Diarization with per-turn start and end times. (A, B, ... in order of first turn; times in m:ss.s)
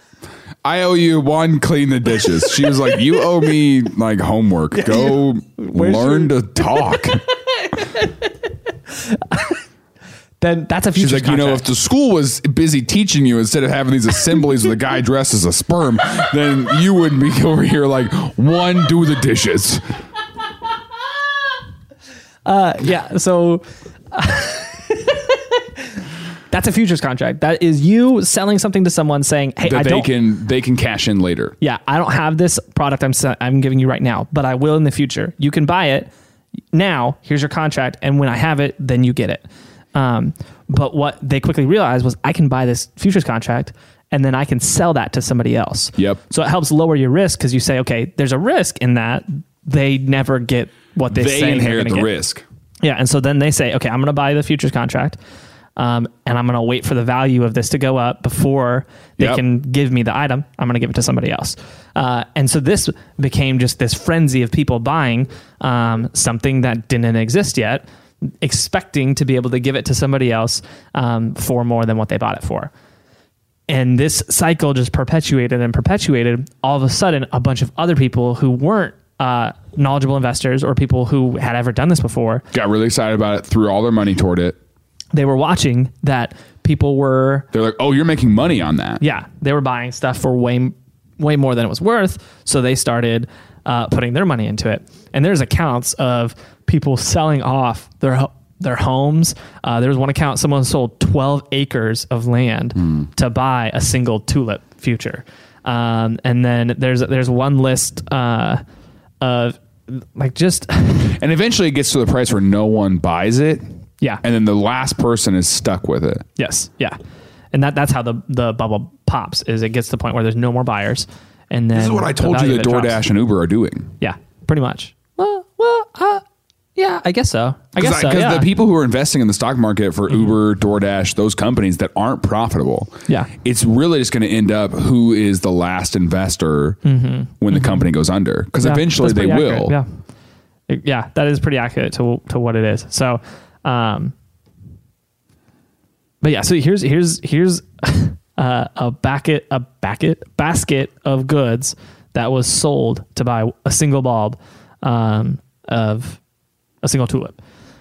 0:00.6-0:07.2 A
0:04.7-0:07.0 B
0:07.5-0:08.3 B
0:08.9-0:09.6 B
0:10.4-0:11.7 B
0:11.0-0:19.8 A
0:22.4-0:25.8 B
0:26.5-0:30.1 B
0:29.6-0:31.5 A
0:31.6-0:36.1 B
0:36.7-0:52.1 B
0:51.1-0:52.4 A
0:52.8-0:55.2 B
0:55.8-1:07.8 B
1:08.4-1:12.7 B
1:13.7-1:22.4 B
1:22.5-1:24.6 A
1:25.1-1:27.5 B
1:27.5-1:29.0 A
1:29.0-1:48.6 B
1:49.2-1:51.1 B
1:51.0-1:53.6 A
1:54.2-1:56.2 A
1:56.4-1:57.0 B
1:57.5-2:03.0 B
2:01.7-2:03.9 A
2:04.0-2:06.2 B
2:06.8-2:08.5 B
2:07.8-2:16.8 A
2:16.8-2:17.8 B
2:17.4-2:19.8 A
2:18.6-2:19.8 B
2:20.7-2:24.1 B
2:26.2-2:36.2 B
2:36.8-2:37.4 B